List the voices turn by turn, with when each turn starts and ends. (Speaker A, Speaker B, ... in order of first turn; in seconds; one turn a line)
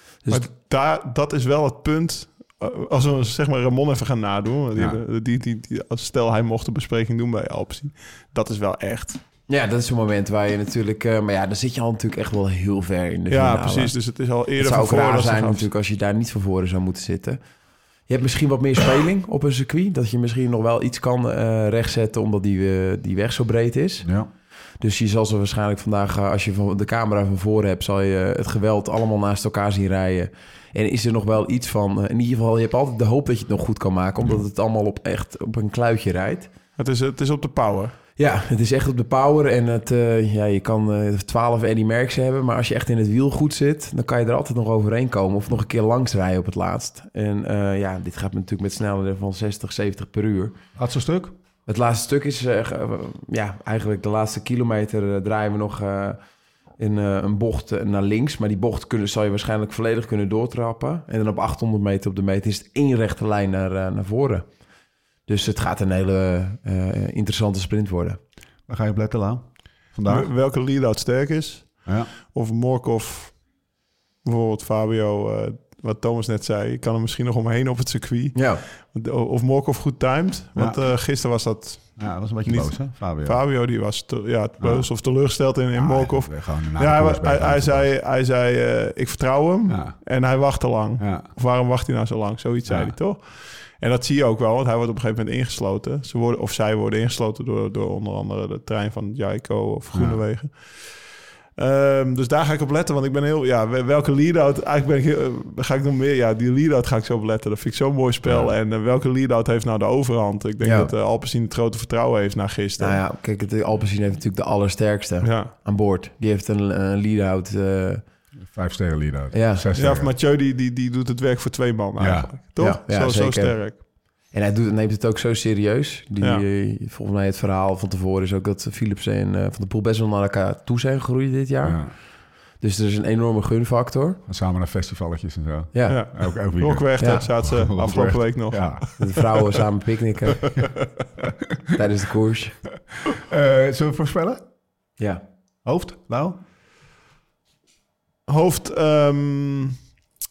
Speaker A: 0.2-0.5
Speaker B: 0.3-9.2
Speaker C: 4.7-5.0
Speaker A: 9.5-14.0
Speaker B: 13.3-15.7
Speaker A: 14.6-17.4
Speaker A: 18.1-24.1
Speaker C: 24.0-24.3
Speaker A: 24.8-36.5
Speaker B: 36.8-37.9
Speaker A: 38.2-50.6
Speaker C: 50.8-51.3
Speaker A: 51.7-56.2
Speaker A: 56.8-64.5
Speaker A: 65.3-68.2
Speaker C: 68.7-70.3
Speaker B: 70.0-73.4
Speaker C: 71.9-72.1
Speaker B: 74.2-113.0
Speaker A: 78.3-78.6
Speaker C: 82.0-83.4
Speaker C: 84.6-84.9
Speaker C: 85.7-87.9
Speaker C: 89.7-90.0
Speaker C: 91.0-91.3
Speaker C: 92.7-92.9
Speaker C: 99.9-100.2
Speaker C: 108.2-108.5
Speaker A: 110.6-110.9
Speaker A: 112.8-118.0
Speaker B: 115.2-115.5
Speaker C: 118.5-120.1
Speaker A: 119.3-119.6
Speaker B: 119.8-123.8
Speaker C: 122.0-122.3
Speaker A: 122.6-131.8
Speaker C: 131.6-131.9
Speaker A: 132.6-134.2
Speaker C: 134.3-138.8
Speaker A: 135.7-136.0
Speaker B: 135.9-139.6
Speaker A: 137.0-137.3
Speaker A: 139.0-140.5
Speaker B: 140.4-140.9
Speaker A: 141.7-142.6
Speaker C: 143.1-144.4
Speaker C: 145.7-146.4
Speaker B: 148.3-149.8